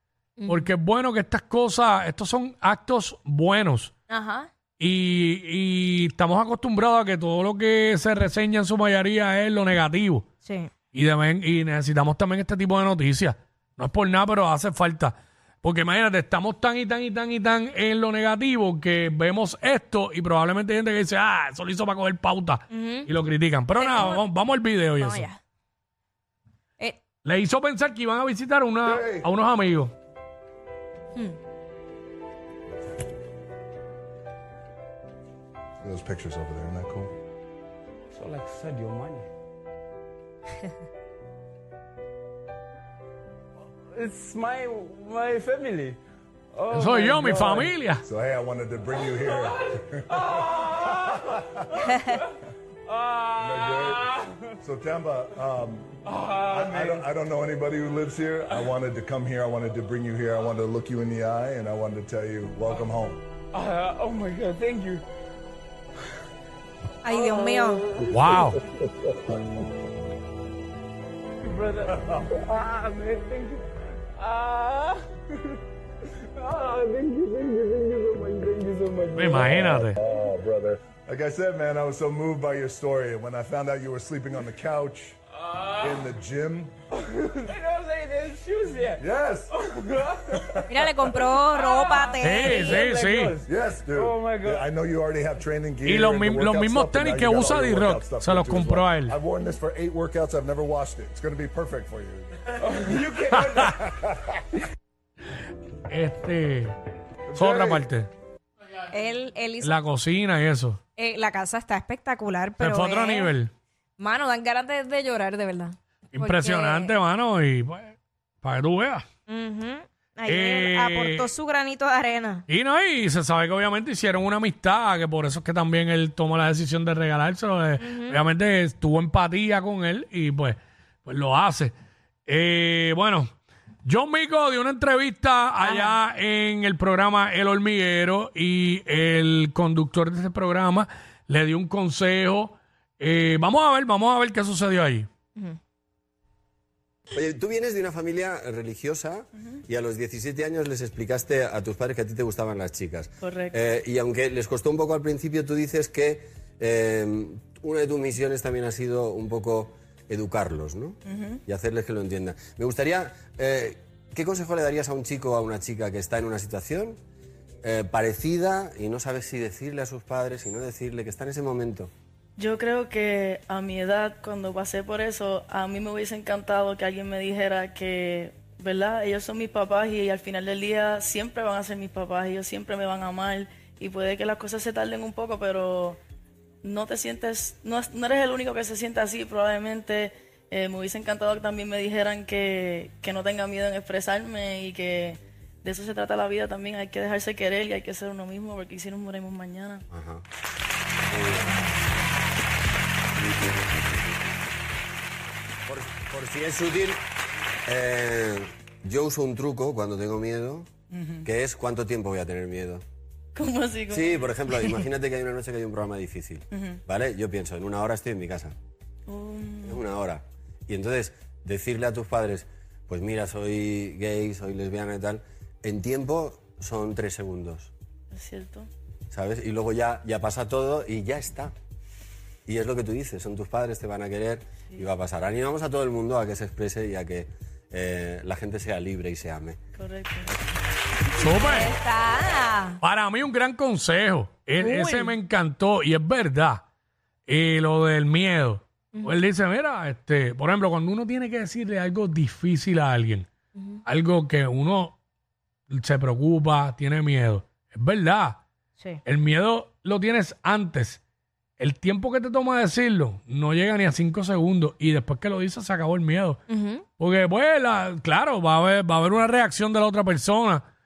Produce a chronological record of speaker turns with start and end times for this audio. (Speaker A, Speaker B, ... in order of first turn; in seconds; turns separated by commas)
Speaker A: 0.4-0.7, Speaker B: 0.5-3.9, Speaker A: 4.1-4.5, Speaker B: 4.8-10.3, Speaker A: 10.4-10.7, Speaker B: 10.9-25.3, Speaker A: 22.7-23.1, Speaker A: 23.8-24.2, Speaker A: 25.0-25.4, Speaker B: 27.2-29.9, Speaker C: 28.8-29.3, Speaker C: 35.8-37.1, Speaker D: 38.1-39.3, Speaker D: 43.9-46.0, Speaker D: 46.5-47.8, Speaker B: 46.7-48.0, Speaker C: 48.0-51.9, Speaker D: 49.2-52.3, Speaker D: 52.9-54.5, Speaker C: 53.4-54.1, Speaker C: 54.6-56.0, Speaker D: 56.0-57.1, Speaker C: 56.5-63.2, Speaker D: 63.5-65.0, Speaker A: 67.0-67.8, Speaker D: 67.1-68.5, Speaker B: 68.1-68.6, Speaker D: 71.4-75.0, Speaker C: 71.9-72.3, Speaker D: 76.4-79.8, Speaker B: 79.1-80.0, Speaker C: 79.4-85.2, Speaker D: 85.5-86.0, Speaker C: 85.8-86.7, Speaker D: 87.1-90.6, Speaker C: 89.0-89.6, Speaker C: 90.3-90.7, Speaker A: 90.7-92.8, Speaker D: 91.5-94.7, Speaker B: 92.2-93.4, Speaker C: 93.4-104.4, Speaker B: 95.8-99.2, Speaker D: 102.6-103.2, Speaker B: 103.3-103.8, Speaker B: 105.9-106.8, Speaker C: 107.3-107.9, Speaker B: 107.3-108.1, Speaker A: 108.9-109.8, Speaker B: 109.6-110.8, Speaker A: 111.0-113.3, Speaker B: 112.6-113.5, Speaker A: 114.0-116.9, Speaker B: 116.2-119.0, Speaker A: 119.3-122.5, Speaker B: 120.3-121.3, Speaker B: 122.5-131.7, Speaker A: 127.8-128.2, Speaker B: 132.3-133.3, Speaker B: 133.8-145.1, Speaker A: 135.6-136.0, Speaker E: 147.1-167.0, Speaker F: 153.2-153.6, Speaker F: 161.1-161.4, Speaker E: 167.6-171.9, Speaker F: 172.4-186.0, Speaker F: 186.6-199.8, Speaker E: 199.9-200.2, Speaker E: 201.1-201.6, Speaker E: 205.7-207.0, Speaker E: 207.7-210.7, Speaker F: 210.9-211.2, Speaker E: 211.2-212.8, Speaker F: 213.3-214.2, Speaker E: 213.9-218.6, Speaker F: 216.5-216.8, Speaker F: 219.1-219.7, Speaker E: 219.6-227.7, Speaker F: 228.2-228.7, Speaker E: 229.1-231.5, Speaker E: 232.5-239.6, Speaker F: 239.8-240.3, Speaker B: 241.2-241.7, Speaker A: 241.2-242.8, Speaker B: 242.8-246.6, Speaker A: 244.6-245.2, Speaker B: 247.3-253.3, Speaker B: 253.9-255.0, Speaker B: 255.7-258.4, Speaker B: 259.1-261.0, Speaker B: 261.6-266.4, Speaker A: 266.5-266.9, Speaker B: 267.0-270.6